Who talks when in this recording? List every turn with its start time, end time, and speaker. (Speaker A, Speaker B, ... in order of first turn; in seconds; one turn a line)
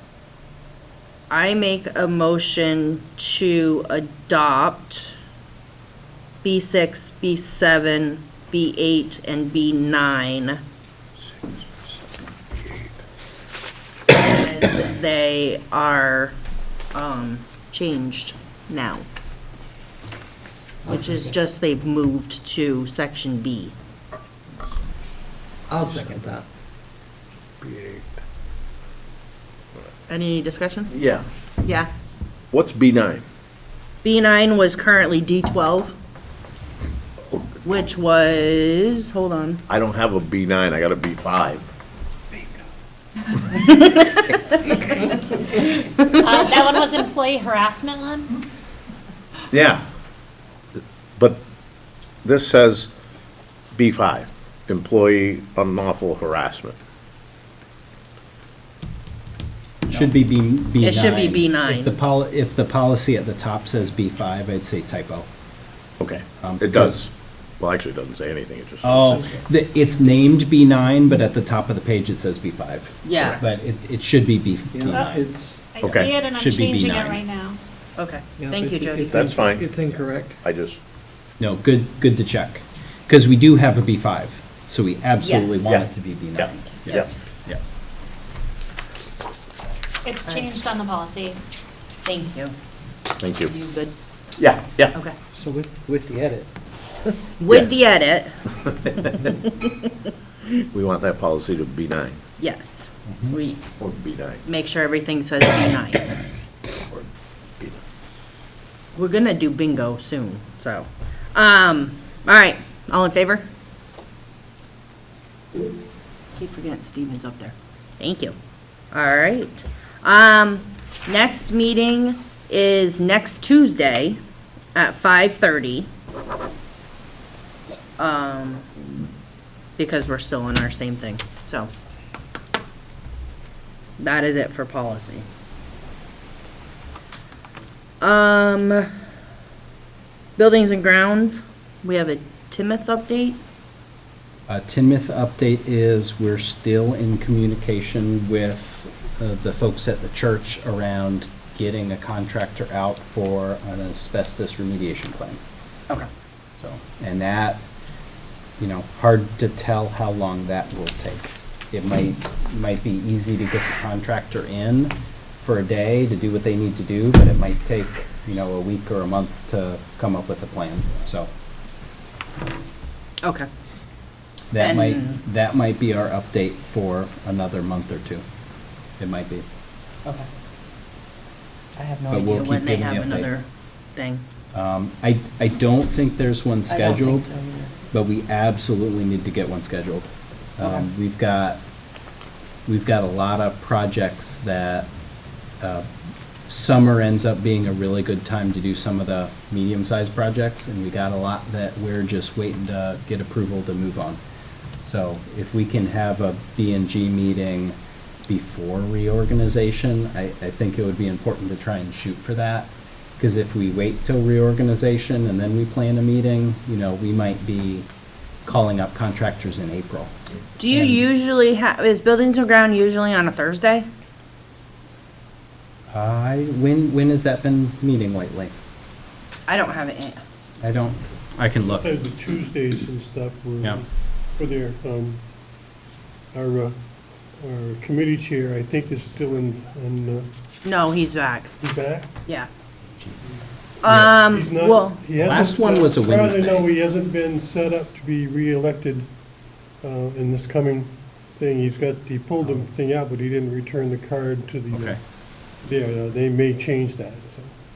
Speaker A: 1.3-5.2
Speaker A: 6.4-10.6
Speaker A: 14.1-16.3
Speaker A: 16.9-19.1
Speaker A: 20.8-23.7
Speaker B: 25.7-26.4
Speaker C: 27.6-28.0
Speaker A: 30.1-30.9
Speaker C: 30.9-31.2
Speaker A: 31.6-31.9
Speaker C: 32.5-33.2
Speaker A: 34.0-35.9
Speaker A: 37.6-39.6
Speaker C: 39.7-41.6
Speaker A: 43.5-46.2
Speaker D: 46.1-48.3
Speaker C: 49.5-49.8
Speaker C: 52.2-52.9
Speaker C: 53.7-56.8
Speaker E: 59.9-65.3
Speaker A: 60.8-61.9
Speaker C: 66.0-69.4
Speaker E: 66.4-67.0
Speaker E: 68.8-75.3
Speaker A: 73.0-73.4
Speaker B: 74.7-75.7
Speaker D: 75.7-77.6
Speaker C: 75.8-76.1
Speaker E: 76.2-77.2
Speaker A: 78.0-79.3
Speaker B: 78.4-80.4
Speaker C: 79.0-80.8
Speaker E: 81.4-87.6
Speaker A: 85.2-85.7
Speaker C: 85.6-87.1
Speaker A: 86.8-87.1
Speaker D: 90.0-91.4
Speaker A: 90.2-90.5
Speaker A: 92.0-92.5
Speaker C: 93.2-93.5
Speaker A: 93.4-93.9
Speaker C: 94.4-94.9
Speaker B: 95.3-96.5
Speaker A: 97.4-99.9
Speaker C: 100.7-102.2
Speaker A: 102.4-103.6
Speaker E: 103.1-103.4
Speaker C: 103.8-104.4
Speaker A: 104.4-106.0
Speaker A: 109.0-113.5
Speaker A: 116.3-118.3
Speaker A: 118.9-124.2
Speaker A: 124.7-125.9
Speaker A: 128.0-128.7
Speaker A: 129.8-131.7
Speaker A: 134.0-135.2
Speaker A: 138.0-138.9
Speaker A: 140.4-143.4
Speaker E: 144.5-155.4
Speaker E: 156.6-157.6
Speaker E: 158.6-171.3
Speaker A: 173.2-173.5
Speaker E: 174.5-178.2
Speaker A: 174.6-175.2
Speaker E: 179.0-179.4
Speaker A: 181.8-184.2
Speaker E: 182.1-183.3
Speaker E: 184.5-187.3
Speaker A: 186.7-187.7
Speaker E: 187.9-191.6
Speaker A: 190.6-190.9
Speaker E: 192.7-194.9
Speaker E: 195.6-195.9
Speaker E: 196.5-204.2
Speaker E: 204.8-207.7
Speaker E: 208.3-217.9
Speaker E: 218.4-220.1
Speaker A: 220.6-223.9
Speaker E: 220.7-221.1
Speaker E: 225.9-228.5
Speaker A: 229.5-230.2
Speaker E: 230.6-232.0
Speaker F: 231.7-233.8
Speaker F: 234.4-235.2
Speaker F: 236.3-236.7
Speaker F: 237.4-240.3
Speaker A: 240.6-241.5
Speaker F: 241.6-242.1
Speaker A: 243.8-245.0
Speaker E: 243.8-244.2
Speaker F: 244.2-249.1
Speaker E: 245.2-246.7
Speaker F: 249.8-255.0
Speaker E: 254.7-255.0
Speaker F: 255.6-257.5